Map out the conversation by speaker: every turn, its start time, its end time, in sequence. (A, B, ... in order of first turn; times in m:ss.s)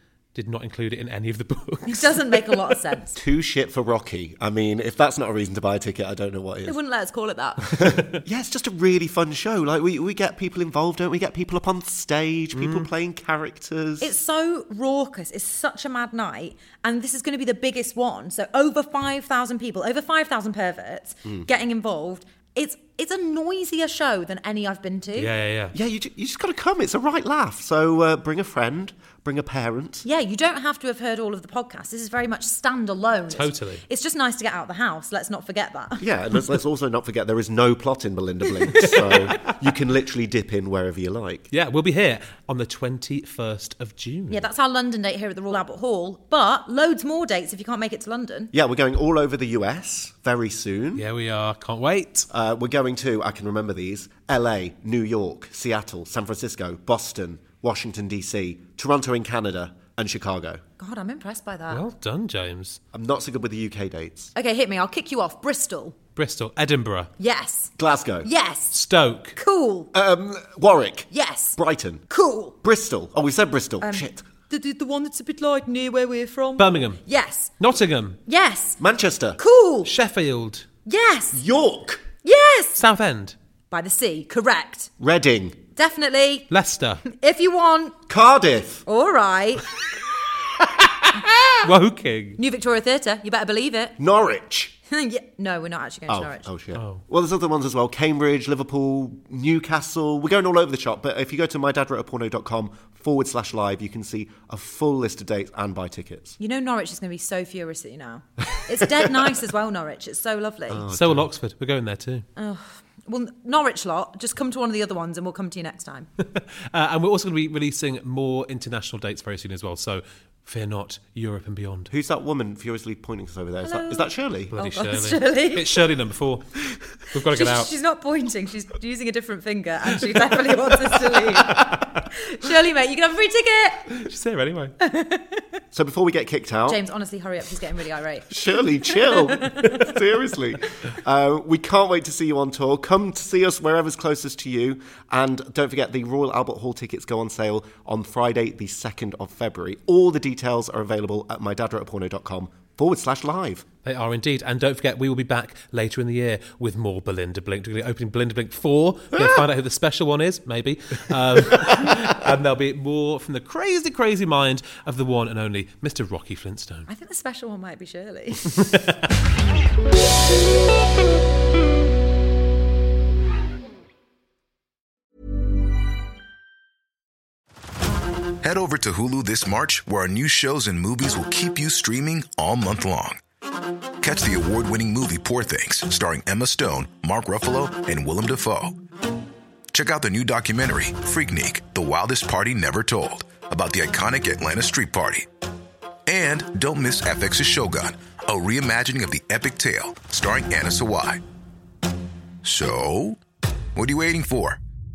0:00.3-0:02.6 A
0:01.8-0:03.2 B
0:03.1-0:06.8 C
0:06.6-0:07.7 B
0:07.7-0:14.1 C
0:12.5-0:12.9 A
0:14.0-0:25.3 B
0:25.2-0:25.7 A
0:25.7-0:30.0 C
0:30.0-0:36.0 B
0:33.3-0:33.8 A
0:36.0-0:41.5 C
0:38.8-0:39.5 A
0:41.5-0:44.5 A
0:44.3-0:48.5 B
0:48.5-0:51.1 C
0:50.9-0:52.3 A
0:52.3-1:00.6 C
1:00.8-1:01.8 B
1:01.7-1:02.8 A
1:02.9-1:04.3 C
1:04.3-1:06.0 B
1:06.2-1:07.1 A
1:07.2-1:08.7 B
1:07.8-1:08.3 C
1:08.7-1:09.4 A
1:09.3-1:09.9 B
1:09.9-1:12.0 C
1:11.1-1:12.6 B
1:12.6-1:14.2 C
1:13.8-1:17.5 B
1:16.6-1:17.0 A
1:17.6-1:18.2 A
1:18.2-1:18.8 B
1:18.8-1:19.4 C
1:19.4-1:19.9 B
1:19.8-1:20.6 A
1:20.8-1:21.4 B
1:21.3-1:22.0 C
1:22.2-1:22.8 B
1:22.8-1:23.4 A
1:23.7-1:24.9 B
1:25.0-1:25.6 C
1:25.8-1:26.5 B
1:26.5-1:27.0 A
1:27.0-1:28.0 B
1:28.1-1:28.8 C
1:28.8-1:29.6 B
1:31.6-1:32.4 A
1:32.4-1:34.0 B
1:34.0-1:34.7 C
1:34.9-1:36.5 B
1:36.1-1:46.4 C
1:36.7-1:37.0 A
1:46.4-1:50.9 B
1:50.7-1:51.3 C
1:50.9-1:52.2 A
1:52.4-1:56.1 B
1:56.2-2:01.9 A
2:01.9-2:04.5 C
2:03.6-2:05.7 B
2:04.5-2:07.7 A
2:07.3-2:14.0 B
2:11.1-2:12.0 A
2:13.9-2:14.7 A
2:14.8-2:15.6 B
2:15.7-2:16.8 C
2:16.6-2:20.0 B
2:18.3-2:33.6 C
2:33.8-2:46.9 A
2:39.2-2:39.4 C
2:46.9-2:48.5 B
2:48.5-2:49.0 A
2:58.4-3:03.2 D
3:04.0-3:08.8 D
3:09.7-3:15.3 D
3:16.1-3:21.2 D
3:22.4-3:23.2 D
3:23.7-3:24.6 D